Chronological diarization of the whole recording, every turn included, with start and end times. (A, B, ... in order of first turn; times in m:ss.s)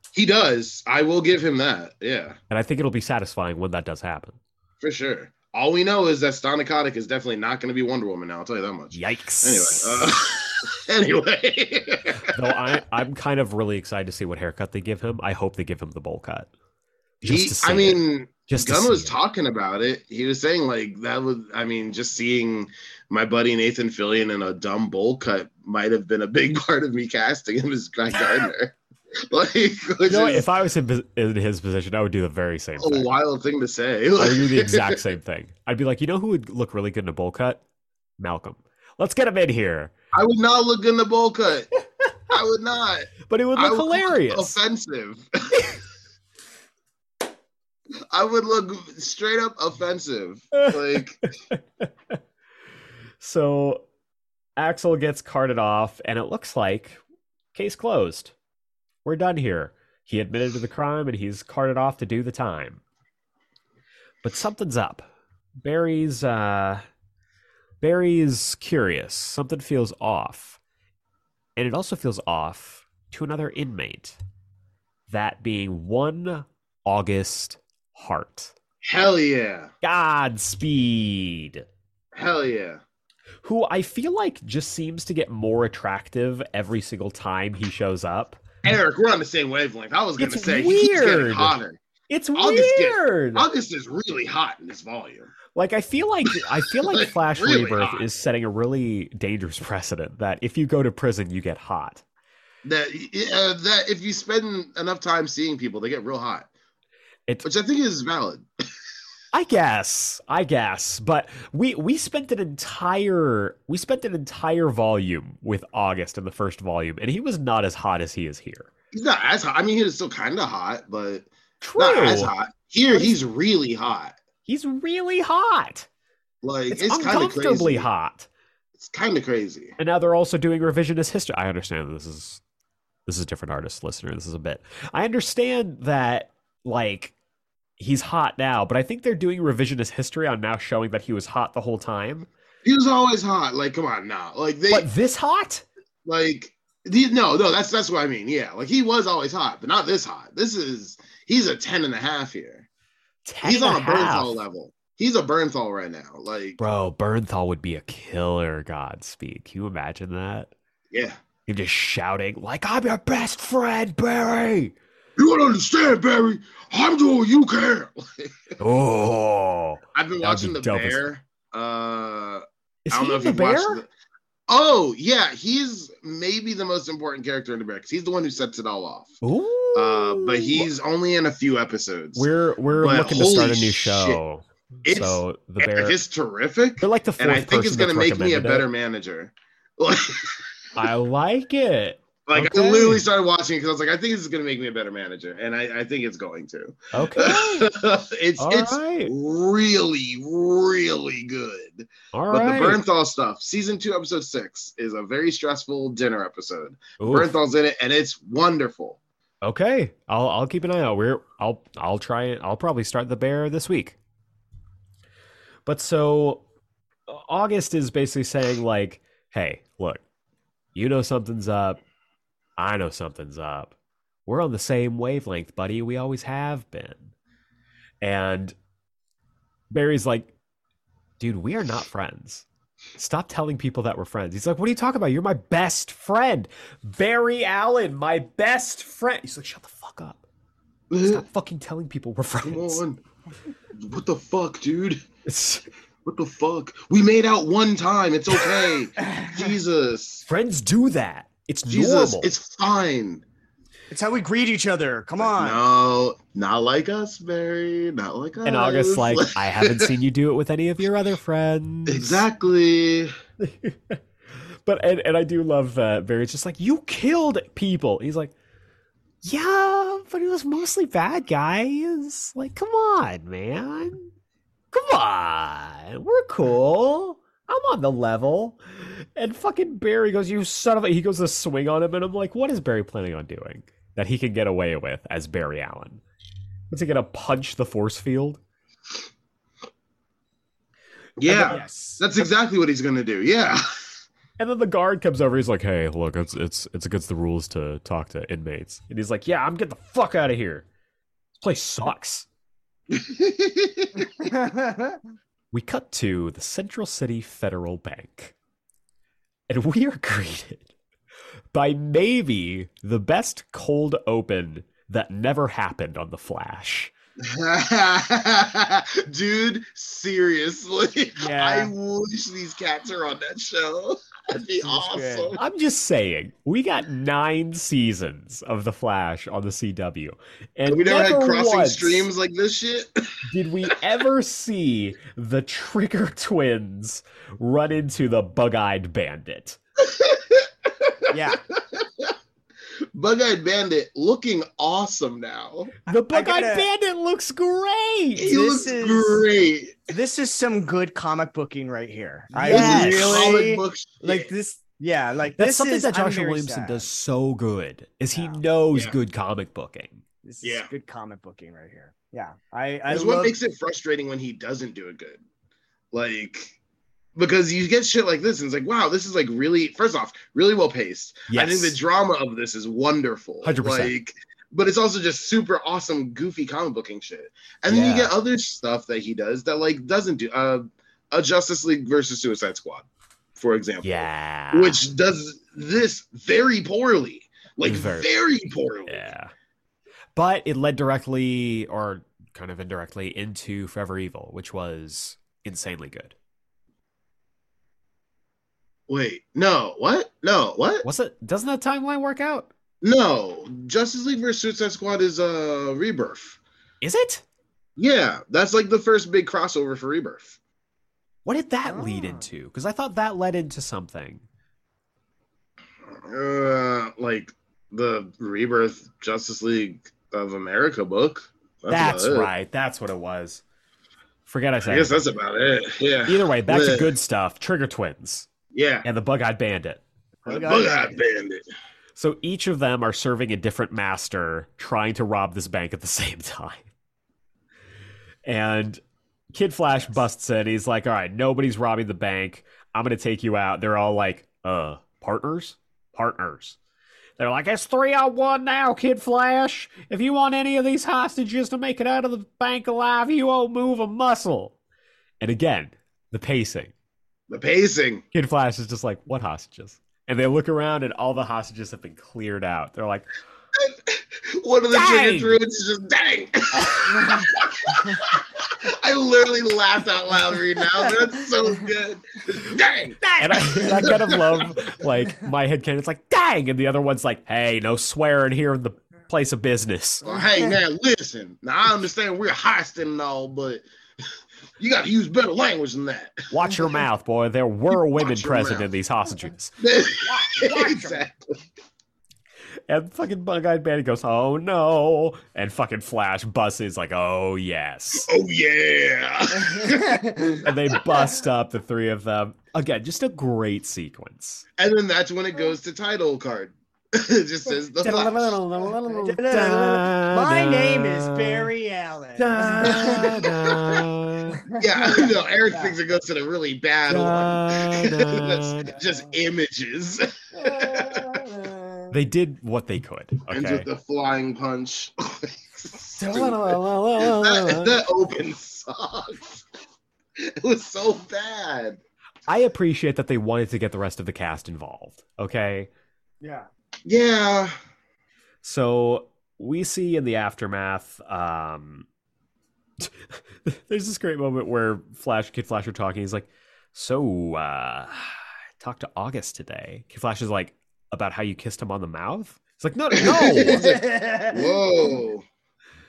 0:00.1-0:02.4 A
0:02.5-0:04.4 B
0:04.8-0:12.4 A
0:08.9-0:10.1 B
0:12.3-0:16.5 B
0:17.2-0:19.2 B
0:17.2-0:28.8 A
0:29.3-0:30.5 A
0:30.1-0:33.1 B
0:32.8-0:35.0 A
0:34.2-0:37.6 B
0:38.2-0:39.9 B
0:40.1-0:41.7 A
0:42.3-0:45.6 A
0:43.2-0:44.6 B
0:48.1-0:51.2 A
0:51.5-0:51.9 B
0:53.2-0:53.8 B
0:54.6-0:57.0 B
0:57.5-0:58.3 B
0:59.0-1:02.8 B
1:04.2-1:05.1 B
1:05.6-1:06.8 B
1:07.8-1:10.6 B
1:11.6-1:14.2 B
1:15.1-1:18.5 B
1:18.8-1:19.7 A
1:19.8-1:21.6 B
1:22.1-1:22.8 A
1:23.4-1:28.4 B
1:28.6-1:31.8 A
1:30.2-1:31.6 B
1:32.1-1:33.5 B
1:32.3-1:35.3 A
1:35.5-1:42.0 B
1:36.9-1:38.0 A
1:42.6-1:46.5 A
1:47.4-1:48.4 A
1:49.3-1:58.7 B
1:58.9-2:04.2 A
2:01.6-2:02.3 B
2:02.9-2:03.2 B
2:04.4-2:05.9 B
2:06.4-2:07.9 A
2:06.7-2:08.3 B
2:08.8-2:09.8 A
2:09.8-2:12.4 B
2:13.1-2:17.1 B
2:17.8-2:22.3 B
2:22.6-2:24.9 A
2:24.7-2:25.6 B
2:26.0-2:32.7 A
2:33.2-2:34.4 B
2:33.4-2:36.6 A
2:36.6-2:40.5 B
2:40.9-2:41.2 A
2:41.5-2:44.7 B
2:45.2-2:48.5 A
2:48.6-2:51.0 B
2:49.9-2:53.9 A
2:52.8-2:53.8 B
2:54.5-2:59.1 A
2:59.2-3:00.7 B
2:59.7-3:02.3 A
3:02.1-3:05.9 B
3:02.8-3:04.2 A
3:04.8-3:10.4 A
3:06.8-3:08.6 B
3:10.8-3:13.0 B
3:12.2-3:29.0 A
3:16.9-3:17.7 B
3:18.4-3:19.1 B
3:22.1-3:22.8 B
3:27.0-3:27.4 B
3:29.4-3:34.0 B
3:35.6-3:36.4 B
3:37.1-3:40.0 B
3:40.7-3:41.8 B
3:42.6-3:43.7 B
3:44.2-3:47.1 B
3:48.0-3:48.6 B
3:49.7-3:50.3 B
3:51.2-4:00.2 B
4:00.9-4:01.2 A
4:01.0-4:02.8 B
4:02.4-4:03.0 A
4:03.8-4:05.0 A
4:05.2-4:05.7 B
4:06.0-4:10.3 A
4:09.1-4:09.3 C
4:10.2-4:12.3 B
4:11.7-4:13.2 A
4:13.9-4:15.6 C
4:15.3-4:19.9 A
4:18.4-4:22.2 B
4:21.9-4:23.1 A
4:23.4-4:24.0 B
4:24.6-4:28.3 B
4:29.2-4:34.1 B
4:34.7-4:46.0 B
4:46.7-4:48.4 B
4:51.2-4:53.6 A
4:51.3-4:52.0 B
4:54.4-5:00.6 B
5:01.4-5:02.3 B
5:02.9-5:04.0 A
5:04.2-5:05.0 C
5:05.5-5:08.3 B
5:09.5-5:10.7 B
5:11.5-5:16.9 B
5:17.2-5:25.4 A
5:21.2-5:21.7 C
5:24.6-5:25.4 C
5:25.4-5:32.1 B
5:30.7-5:33.2 A
5:33.2-5:39.6 B
5:39.8-5:42.1 A
5:41.1-5:41.4 C
5:42.9-5:45.7 A
5:45.9-5:48.3 B
5:45.9-5:46.7 C
5:48.2-5:49.9 A
5:48.2-5:49.2 C
5:49.9-5:56.8 C
5:52.3-5:53.4 B
5:52.4-5:54.3 A
5:55.4-6:00.0 B
5:58.1-5:58.4 C
5:58.7-5:59.0 A
6:00.2-6:03.3 C
6:00.4-6:00.7 A
6:02.9-6:05.2 A
6:05.9-6:06.6 A
6:07.2-6:29.1 A
6:11.3-6:11.8 B
6:13.4-6:13.9 B
6:17.7-6:18.1 B
6:23.8-6:24.8 B
6:27.6-6:28.1 B
6:28.9-6:29.3 B
6:30.1-6:36.1 B
6:38.9-6:40.8 A
6:40.8-6:42.5 B
6:42.8-6:46.4 A
6:46.8-6:47.2 B
6:47.8-6:50.4 A
6:51.2-6:54.2 B
6:51.7-6:52.2 C
6:55.9-7:02.3 A
7:01.7-7:03.4 B
7:04.2-7:05.0 B
7:04.6-7:06.9 A
7:06.1-7:08.3 B
7:08.5-7:08.8 A
7:08.8-7:09.8 B
7:10.2-7:11.0 C
7:10.3-7:11.4 A
7:12.0-7:16.6 B
7:18.2-7:26.6 B
7:27.2-7:34.5 B
7:35.2-7:36.7 B
7:37.3-7:38.0 A
7:38.1-7:43.0 B
7:43.6-7:54.5 A
7:44.7-7:45.4 B
7:46.9-7:47.3 C
7:53.2-8:00.1 B
8:00.0-8:03.6 A
8:00.1-8:00.5 C
8:04.6-8:06.5 A
8:06.3-8:09.5 B
8:07.8-8:08.7 A
8:09.6-8:11.3 A
8:10.0-8:11.0 C
8:12.7-8:18.1 B
8:18.0-8:20.2 A
8:19.3-8:20.4 C
8:20.4-8:24.4 B
8:24.6-8:28.4 A
8:27.8-8:31.5 B
8:28.8-8:33.1 C
8:32.2-8:34.4 B
8:32.7-8:33.8 A
8:34.4-8:35.7 C
8:34.6-8:41.0 A
8:36.9-8:38.8 B
8:40.3-8:41.9 C
8:41.9-8:43.7 B
8:43.3-8:49.4 A
8:46.0-8:47.8 B
8:50.2-8:51.8 A
8:52.3-8:55.7 B
8:56.2-8:56.5 C
8:56.9-8:57.5 A
8:58.4-9:01.8 B
9:02.8-9:13.8 B
9:13.0-9:15.2 A
9:13.4-9:14.6 C